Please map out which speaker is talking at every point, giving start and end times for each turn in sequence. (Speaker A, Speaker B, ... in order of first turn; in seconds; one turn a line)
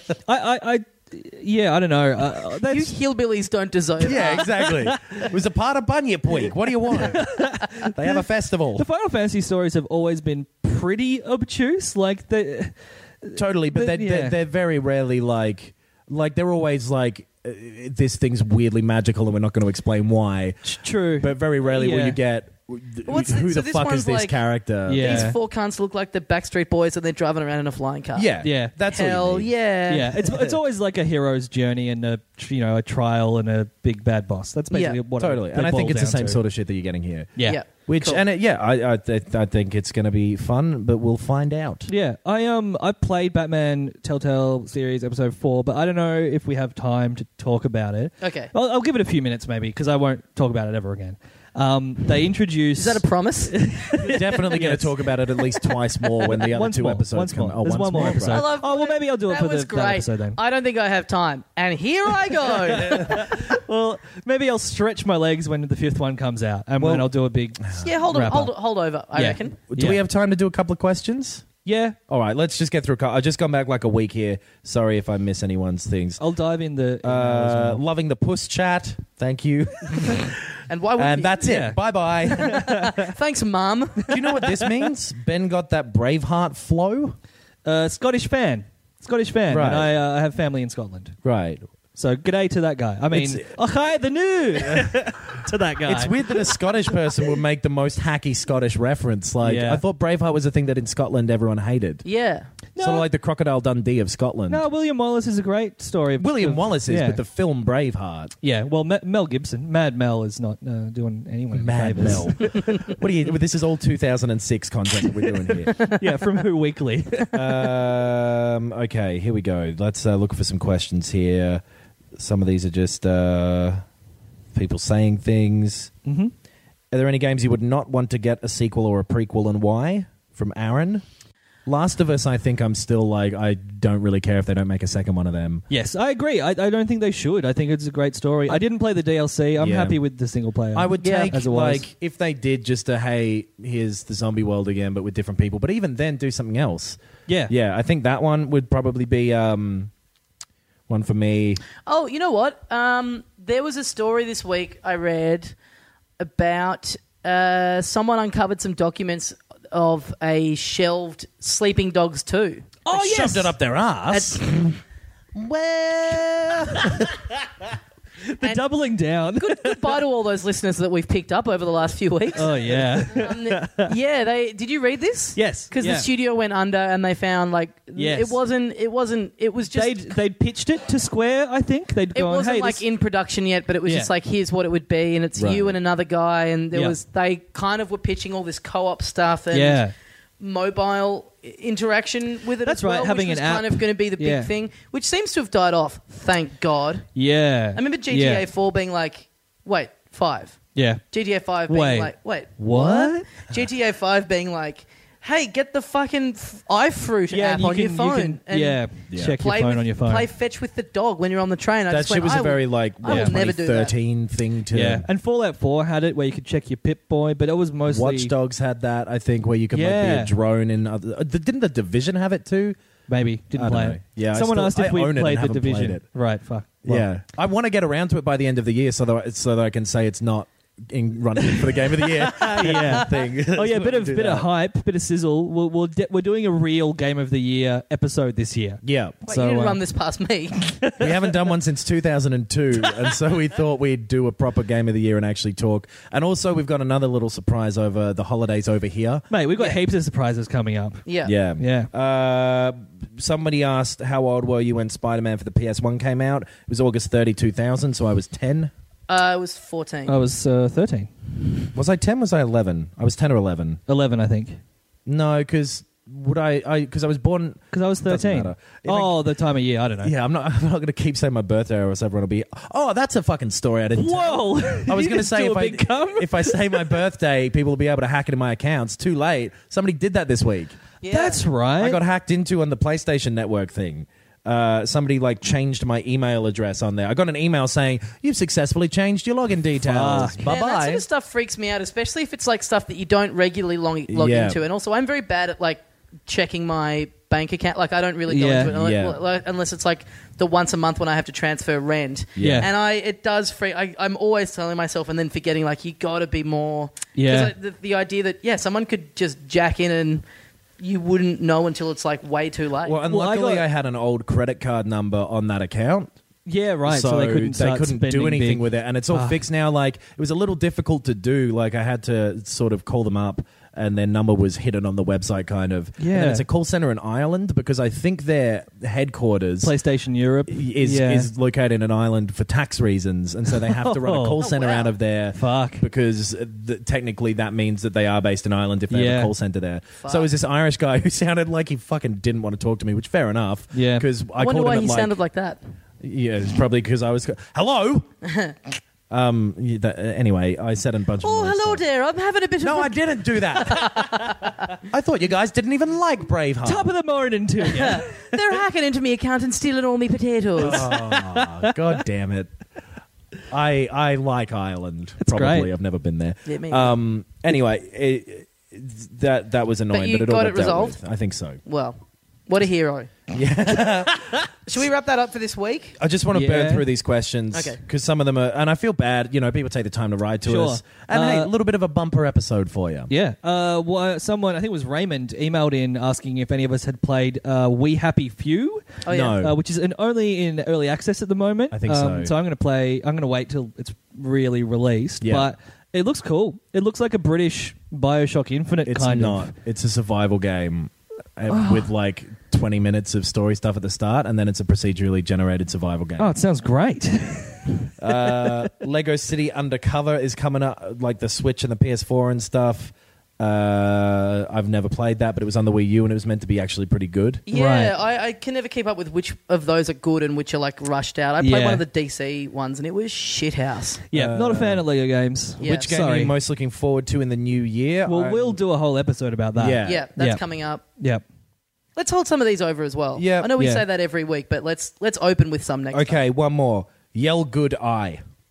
Speaker A: 0.3-2.9
Speaker B: 2.7-4.5
Speaker C: 4.0-8.9
Speaker A: 4.6-5.3
Speaker A: 6.9-8.2
Speaker A: 8.8-14.4
Speaker C: 13.3-25.4
Speaker A: 20.6-22.2
Speaker B: 23.1-24.4
Speaker A: 24.9-25.4
Speaker B: 25.0-30.2
Speaker C: 28.1-29.5
Speaker A: 28.4-28.7
Speaker A: 29.9-36.4
Speaker C: 30.2-30.6
Speaker B: 34.7-35.0
Speaker C: 35.2-41.9
Speaker B: 37.5-38.2
Speaker A: 41.9-60.4
Speaker B: 48.2-48.5
Speaker B: 52.8-53.5
Speaker C: 54.0-58.5
Speaker B: 58.0-63.4
Speaker A: 62.5-68.5
Speaker C: 66.8-67.1
Speaker B: 67.8-69.6
Speaker A: 69.1-70.0
Speaker C: 69.7-71.5
Speaker A: 71.7-72.0
Speaker C: 72.1-76.2
Speaker A: 76.2-77.8
Speaker C: 77.0-82.7
Speaker B: 80.7-81.5
Speaker A: 81.4-81.8
Speaker B: 82.3-84.2
Speaker A: 82.4-82.9
Speaker C: 84.1-87.2
Speaker A: 84.1-84.8
Speaker A: 87.7-91.2
Speaker C: 89.5-89.9
Speaker C: 91.2-91.6
Speaker A: 92.0-96.5
Speaker C: 93.1-93.5
Speaker C: 94.6-95.0
Speaker C: 95.8-102.0
Speaker A: 99.4-99.8
Speaker B: 102.0-102.5
Speaker A: 102.8-103.1
Speaker C: 102.8-104.6
Speaker A: 104.5-107.2
Speaker C: 106.2-108.3
Speaker A: 108.4-112.5
Speaker C: 111.5-115.9
Speaker A: 115.5-117.8
Speaker C: 117.3-121.6
Speaker C: 122.2-123.8
Speaker C: 124.5-125.9
Speaker A: 126.1-126.3
Speaker C: 126.9-131.1
Speaker C: 131.7-135.7
Speaker A: 135.7-141.8
Speaker C: 139.6-140.0
Speaker C: 140.7-149.9
Speaker B: 141.0-141.3
Speaker A: 147.3-147.5
Speaker C: 150.9-151.6
Speaker B: 151.9-155.6
Speaker B: 156.2-162.7
Speaker A: 162.8-163.5
Speaker C: 162.9-164.8
Speaker B: 164.1-164.4
Speaker C: 165.3-167.2
Speaker A: 168.3-170.0
Speaker B: 169.4-180.1
Speaker A: 172.3-173.9
Speaker A: 175.4-176.1
Speaker A: 178.0-178.4
Speaker A: 179.7-182.8
Speaker B: 182.1-189.8
Speaker A: 183.9-184.1
Speaker C: 185.4-185.8
Speaker A: 189.5-189.9
Speaker B: 190.4-197.1
Speaker A: 192.7-194.5
Speaker A: 197.2-198.5
Speaker B: 197.8-200.6
Speaker A: 200.8-201.0
Speaker B: 201.1-208.8
Speaker A: 201.7-203.3
Speaker A: 207.3-210.3
Speaker C: 209.1-209.4
Speaker B: 209.4-213.9
Speaker C: 211.9-215.1
Speaker A: 213.1-213.3
Speaker A: 214.7-218.3
Speaker C: 217.9-222.8
Speaker A: 219.7-220.3
Speaker A: 223.1-227.1
Speaker C: 223.5-226.0
Speaker C: 226.8-234.5
Speaker A: 231.5-239.8
Speaker C: 238.8-239.2
Speaker B: 239.3-240.6
Speaker A: 240.6-241.3
Speaker C: 241.0-249.2
Speaker A: 249.3-251.0
Speaker B: 251.1-251.3
Speaker C: 251.2-258.7
Speaker A: 251.6-251.9
Speaker B: 259.1-260.2
Speaker A: 260.1-261.1
Speaker C: 261.7-263.8
Speaker A: 263.9-264.6
Speaker C: 265.1-269.1
Speaker A: 267.7-270.1
Speaker C: 270.0-280.8
Speaker A: 274.0-277.0
Speaker B: 281.0-281.4
Speaker A: 281.1-282.0
Speaker C: 281.8-291.1
Speaker A: 289.8-290.5
Speaker B: 290.4-310.2
Speaker C: 294.1-294.6
Speaker A: 298.3-298.7
Speaker C: 298.7-299.2
Speaker C: 302.4-302.7
Speaker A: 302.4-302.7
Speaker A: 307.2-307.5
Speaker B: 310.8-313.0
Speaker C: 312.8-316.1
Speaker A: 313.1-313.7
Speaker A: 316.5-319.4
Speaker C: 316.9-329.7
Speaker A: 326.0-326.4
Speaker A: 329.6-331.3
Speaker C: 330.5-345.2
Speaker A: 333.5-334.4
Speaker B: 334.4-334.9
Speaker A: 335.4-335.8
Speaker A: 338.9-339.3
Speaker B: 340.0-340.3
Speaker A: 343.7-344.1
Speaker B: 344.4-345.6
Speaker C: 346.0-348.1
Speaker B: 348.2-348.6
Speaker C: 349.1-351.8
Speaker B: 351.2-354.5
Speaker C: 352.6-354.3
Speaker C: 354.9-356.9
Speaker A: 356.6-358.4
Speaker B: 357.7-360.9
Speaker C: 360.6-362.5
Speaker A: 360.7-361.8
Speaker C: 363.5-371.6
Speaker A: 365.2-365.7
Speaker B: 366.5-366.9
Speaker B: 369.9-371.0
Speaker B: 371.7-373.1
Speaker C: 373.3-374.5
Speaker B: 374.6-376.0
Speaker C: 376.0-383.1
Speaker A: 376.3-376.9
Speaker B: 377.5-377.8
Speaker A: 380.5-381.5
Speaker A: 383.1-399.5
Speaker B: 389.0-389.4
Speaker C: 389.1-389.6
Speaker C: 391.7-392.3
Speaker C: 395.2-395.5
Speaker C: 398.9-406.3
Speaker A: 401.5-401.9
Speaker A: 406.2-408.6
Speaker C: 408.0-417.4
Speaker B: 417.5-424.0
Speaker A: 417.5-418.0
Speaker A: 421.4-421.9
Speaker A: 424.1-426.3
Speaker C: 424.1-424.8
Speaker B: 425.6-425.9
Speaker C: 425.6-428.6
Speaker A: 428.1-430.4
Speaker C: 429.6-430.1
Speaker B: 429.9-430.8
Speaker B: 432.0-436.2
Speaker C: 433.1-433.5
Speaker A: 433.6-433.9
Speaker C: 435.9-438.2